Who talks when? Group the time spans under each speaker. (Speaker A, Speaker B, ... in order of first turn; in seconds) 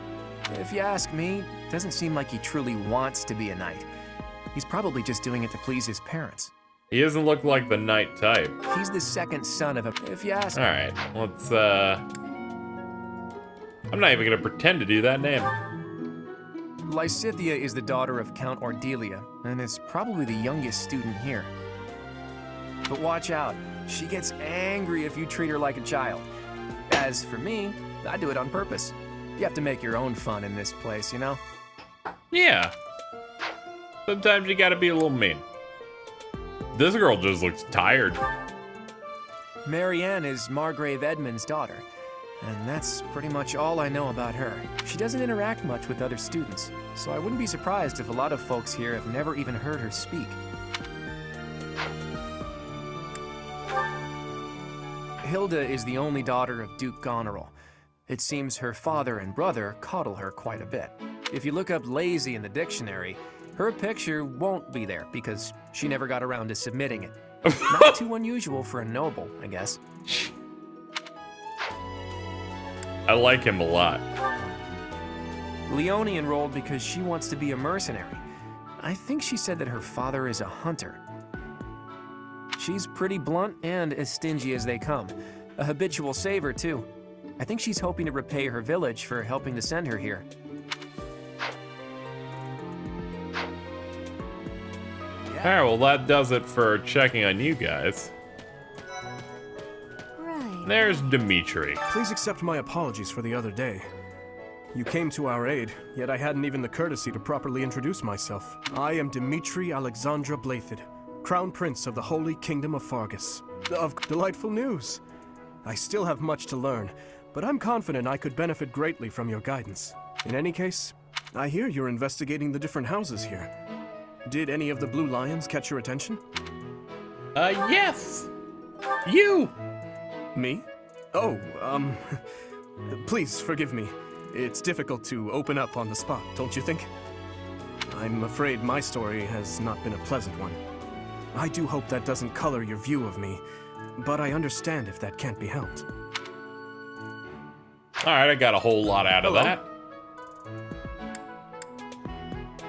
Speaker A: 0.5-3.9, 4.5-6.5, 8.7-10.6, 16.9-21.5, 22.9-26.3, 26.9-31.4, 39.6-41.9, 42.4-50.4, 55.2-57.5, 58.1-69.8, 75.7-78.2, 78.8-81.0, 82.6-86.9, 87.4-90.3
Speaker B: 6.9-8.6, 10.6-12.0, 13.9-15.5, 32.3-32.7, 34.1-35.4, 36.7-38.2, 67.5-68.0, 73.1-74.0, 95.4-98.1, 100.6-101.8, 127.3-128.3, 129.1-129.5, 148.0-149.7
Speaker C: 101.9-103.9, 104.7-115.0, 115.6-123.5, 124.3-126.2, 130.3-132.2, 132.9-136.9, 137.9-140.6, 141.3-143.4, 144.0-145.9, 149.2-149.6